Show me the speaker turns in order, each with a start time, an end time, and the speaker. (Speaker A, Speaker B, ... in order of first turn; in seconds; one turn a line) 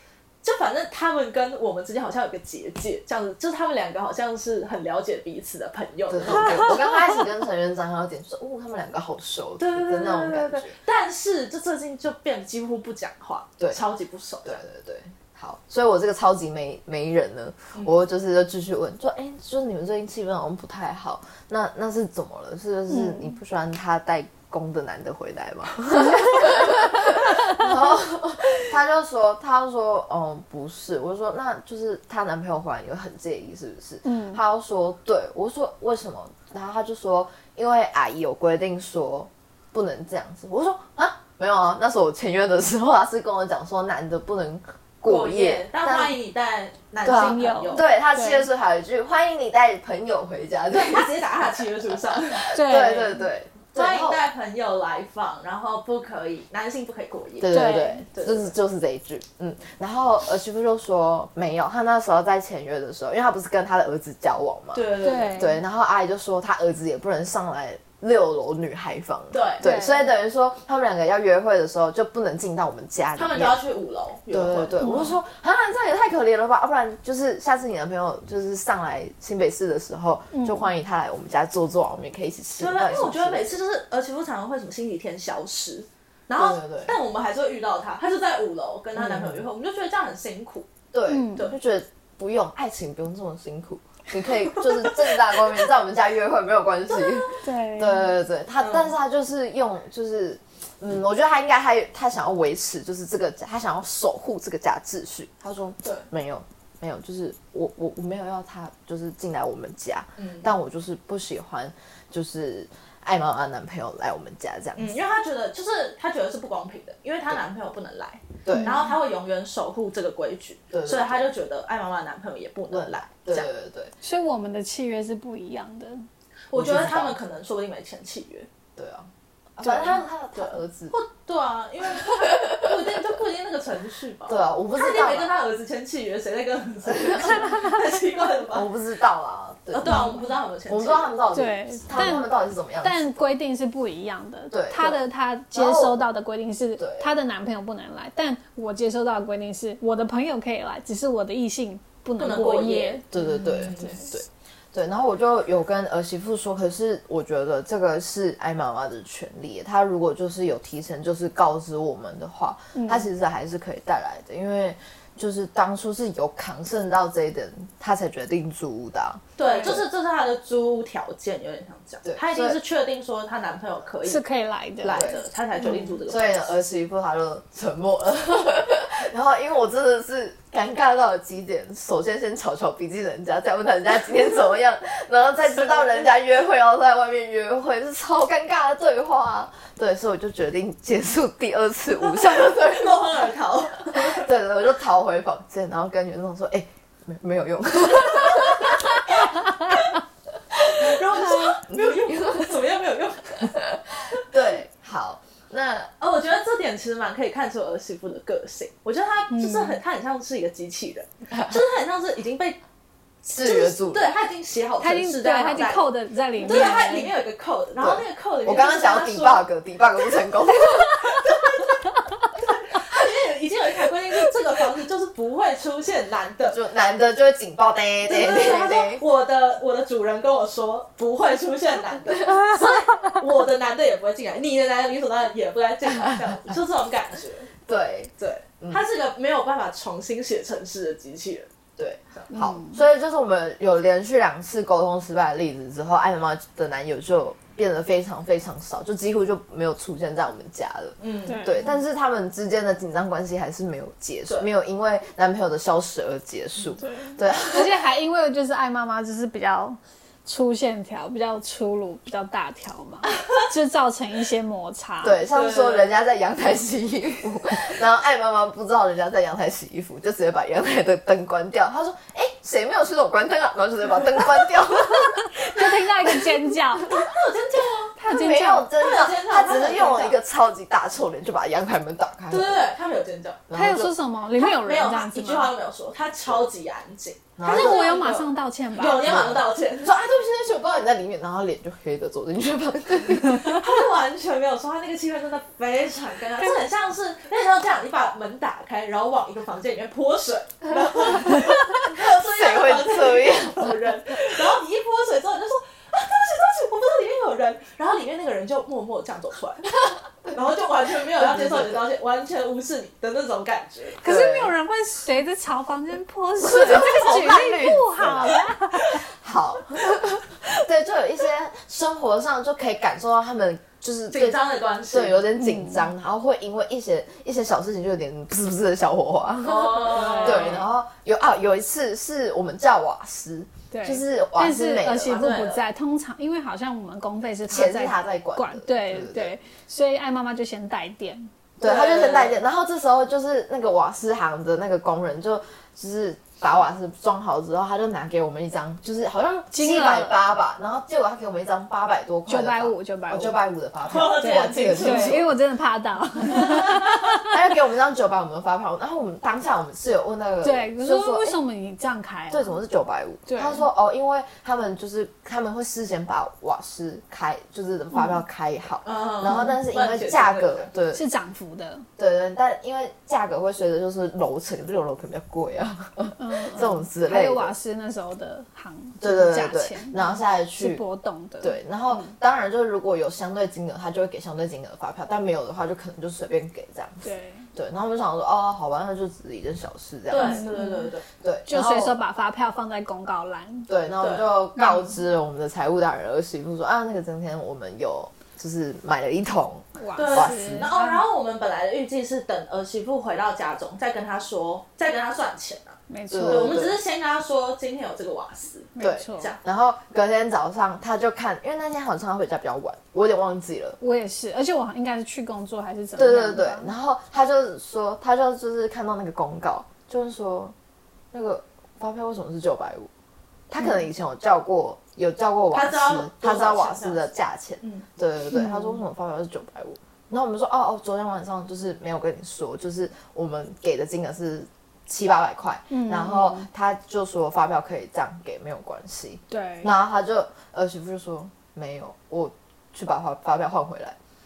Speaker A: 0.4-6.8
Speaker B: 6.1-10.8
Speaker A: 9.6-14.6
Speaker B: 14.4-46.2
Speaker C: 22.9-23.3
Speaker C: 34.0-34.4
Speaker A: 45.0-47.8
Speaker B: 47.0-51.5
Speaker C: 47.0-48.5
Speaker A: 50.7-52.5
Speaker B: 52.1-54.2
Speaker C: 52.5-53.3
Speaker A: 53.7-58.5
Speaker B: 57.4-73.6
Speaker C: 57.5-58.0
Speaker A: 64.7-65.4
Speaker C: 65.0-65.6
Speaker A: 69.3-69.6
Speaker C: 69.6-70.1
Speaker A: 73.2-75.1
Speaker B: 74.3-83.5
Speaker C: 74.8-75.2
Speaker C: 80.3-80.7
Speaker A: 82.6-90.7
Speaker B: 86.3-87.0
Speaker B: 88.9-89.4
Speaker B: 90.9-115.0
Speaker C: 91.1-91.5
Speaker A: 96.9-97.3
Speaker C: 97.4-98.1
Speaker A: 98.6-98.9
Speaker A: 110.2-110.5
Speaker A: 114.8-123.5
Speaker B: 118.4-118.9
Speaker C: 118.5-119.0
Speaker B: 120.7-121.3
Speaker B: 122.7-123.9
Speaker C: 124.0-126.0
Speaker A: 126.5-128.5
Speaker B: 126.5-127.2
Speaker B: 128.8-130.9
Speaker A: 129.6-138.7
Speaker B: 131.9-133.1
Speaker B: 134.3-135.3
Speaker B: 136.9-137.5
Speaker B: 138.5-143.2
Speaker A: 139.7-141.2
Speaker C: 139.9-140.2
Speaker C: 141.3-154.1
Speaker B: 144.5-145.0
Speaker B: 145.5-146.0
Speaker B: 146.8-147.1
Speaker A: 152.2-154.0
Speaker B: 153.1-169.8
Speaker C: 162.7-163.1
Speaker A: 169.4-174.2
Speaker C: 169.4-169.7
Speaker B: 172.1-172.6
Speaker C: 174.0-175.9
Speaker A: 174.8-176.5
Speaker B: 174.9-193.1
Speaker A: 192.1-194.3
Speaker B: 193.8-199.5
Speaker A: 198.4-199.9
Speaker B: 200.5-202.7
Speaker A: 200.6-204.2
Speaker B: 203.3-205.9
Speaker A: 206.0-212.6
Speaker C: 209.3-209.8
Speaker A: 213.2-219.5
Speaker B: 213.3-214.1
Speaker C: 214.8-217.1
Speaker B: 217.8-221.4
Speaker A: 221.1-221.8
Speaker A: 222.4-226.6
Speaker B: 226.4-229.0
Speaker A: 228.1-237.5
Speaker B: 237.7-238.8
Speaker A: 238.2-241.5
Speaker B: 241.8-257.7
Speaker C: 242.3-242.8
Speaker A: 251.0-251.6
Speaker C: 251.3-251.7
Speaker C: 256.8-265.2
Speaker B: 265.0-276.5
Speaker A: 265.3-265.9
Speaker C: 275.1-276.9
Speaker A: 276.8-277.9
Speaker B: 278.0-282.7
Speaker C: 278.0-278.7
Speaker A: 278.8-280.2
Speaker A: 282.3-283.4
Speaker B: 283.5-283.9
Speaker C: 283.5-285.5
Speaker A: 284.4-289.9
Speaker B: 287.4-287.9
Speaker C: 287.4-289.1
Speaker B: 288.9-293.6
Speaker A: 293.2-314.0
Speaker B: 301.3-303.8
Speaker B: 311.1-311.9
Speaker C: 314.0-319.0
Speaker B: 314.0-314.5
Speaker B: 316.4-318.4
Speaker B: 319.0-335.4
Speaker A: 324.1-325.2
Speaker C: 325.4-325.9
Speaker A: 329.4-330.6
Speaker C: 329.8-330.6
Speaker C: 333.7-341.3
Speaker A: 335.1-335.6
Speaker B: 337.5-339.3
Speaker B: 341.6-355.3
Speaker A: 341.6-342.4
Speaker C: 349.5-350.2
Speaker C: 352.3-353.4
Speaker A: 353.9-355.2
Speaker C: 354.1-357.4
Speaker B: 356.3-361.4
Speaker C: 360.4-362.6
Speaker B: 362.3-371.0
Speaker C: 363.2-363.7
Speaker C: 367.9-368.2
Speaker A: 368.8-370.7
Speaker C: 369.2-369.6
Speaker C: 370.9-371.9
Speaker B: 372.0-377.5
Speaker C: 376.2-382.1
Speaker B: 379.0-380.8
Speaker B: 381.4-390.5
Speaker C: 387.0-387.5
Speaker A: 390.1-391.0
Speaker C: 390.1-390.9
Speaker B: 391.2-392.0
Speaker C: 391.5-393.7
Speaker B: 393.7-400.7
Speaker A: 394.0-394.3
Speaker C: 399.8-401.0
Speaker A: 399.9-409.4
Speaker C: 405.9-406.6
Speaker B: 406.1-406.8
Speaker C: 408.8-409.3
Speaker B: 408.8-413.8
Speaker C: 413.8-416.7
Speaker B: 415.9-420.5
Speaker B: 421.1-422.9
Speaker B: 423.5-444.0
Speaker C: 423.6-423.8
Speaker A: 425.5-427.0
Speaker C: 428.3-428.8
Speaker C: 435.7-436.5
Speaker C: 439.3-439.7